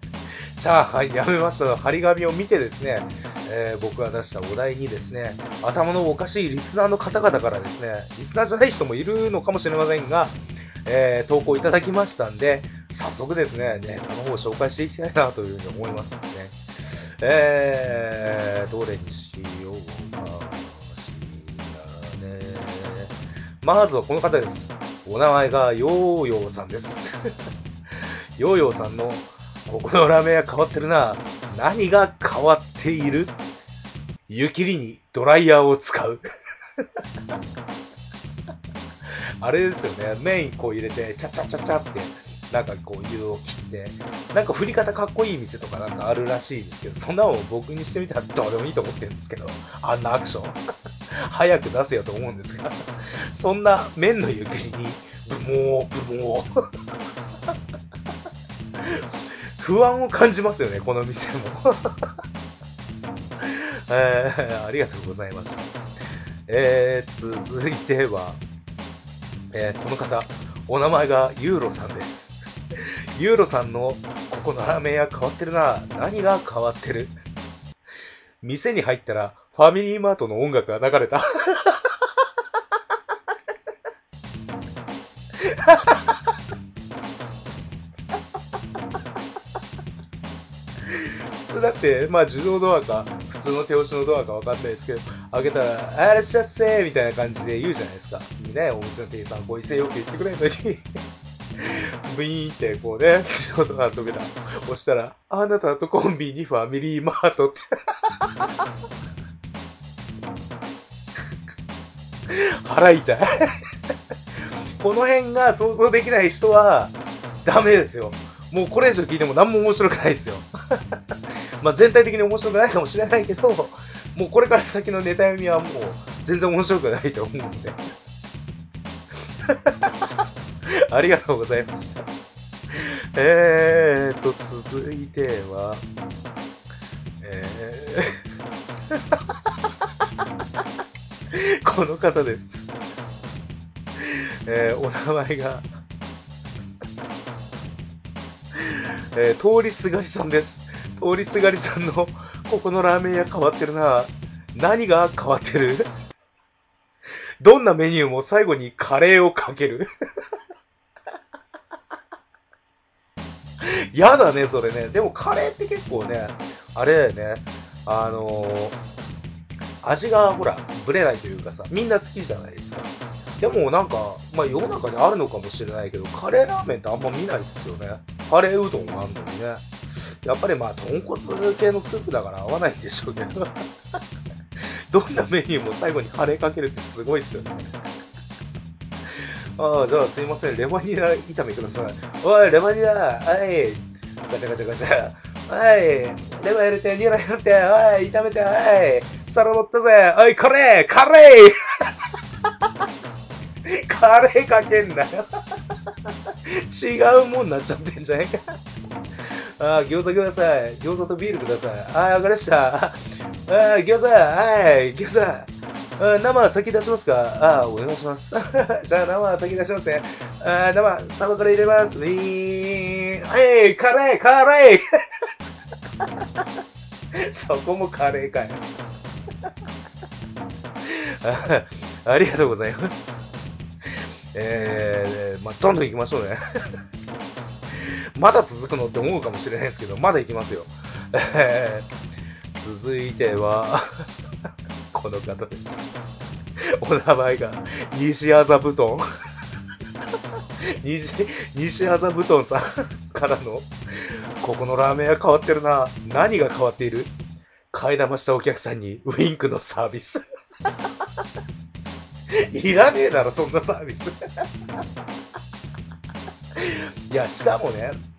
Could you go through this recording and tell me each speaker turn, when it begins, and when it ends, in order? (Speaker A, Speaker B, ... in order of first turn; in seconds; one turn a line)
Speaker A: 0.6-27.1
Speaker A: 28.4-33.4
Speaker A: 34.3-36.2
Speaker A: 39.4-50.6
Speaker A: 51.1-56.5
Speaker A: 58.8-59.0
Speaker A: 59.6-62.1
Speaker A: 63.4-65.7
Speaker A: 66.5-68.4
Speaker A: 69.5-72.4
Speaker A: 73.2-77.2
Speaker A: 78.4-81.9
Speaker A: 85.4-86.1
Speaker A: 90.9-100.8
Speaker A: 101.6-107.6
Speaker A: 112.3-113.5
Speaker A: 114.8-120.5
Speaker A: 121.6-127.8
Speaker A: 129.5-129.9
Speaker A: 130.7-132.1
Speaker A: 132.7-135.8
Speaker A: 137.2-138.2
Speaker A: 138.9-139.2
Speaker A: 141.3-142.7
Speaker A: 144.0-145.7
Speaker A: 148.6-155.9
Speaker A: 157.4-159.9
Speaker A: 163.6-168.8
Speaker A: 169.8-179.7
Speaker A: 180.2-183.6
Speaker A: 184.9-187.7
Speaker A: 189.6-201.6
Speaker A: 203.7-205.3
Speaker A: 206.5-208.4
Speaker A: 209.6-224.8
Speaker A: 227.2-228.6
Speaker A: 230.8-233.2
Speaker A: 234.3-236.4
Speaker A: 237.8-241.9
Speaker A: 242.6-244.1
Speaker A: 244.9-245.9
Speaker A: 246.8-249.1
Speaker A: 250.8-257.1
Speaker A: 257.7-260.2
Speaker A: 262.4-264.1
Speaker A: 266.6-268.0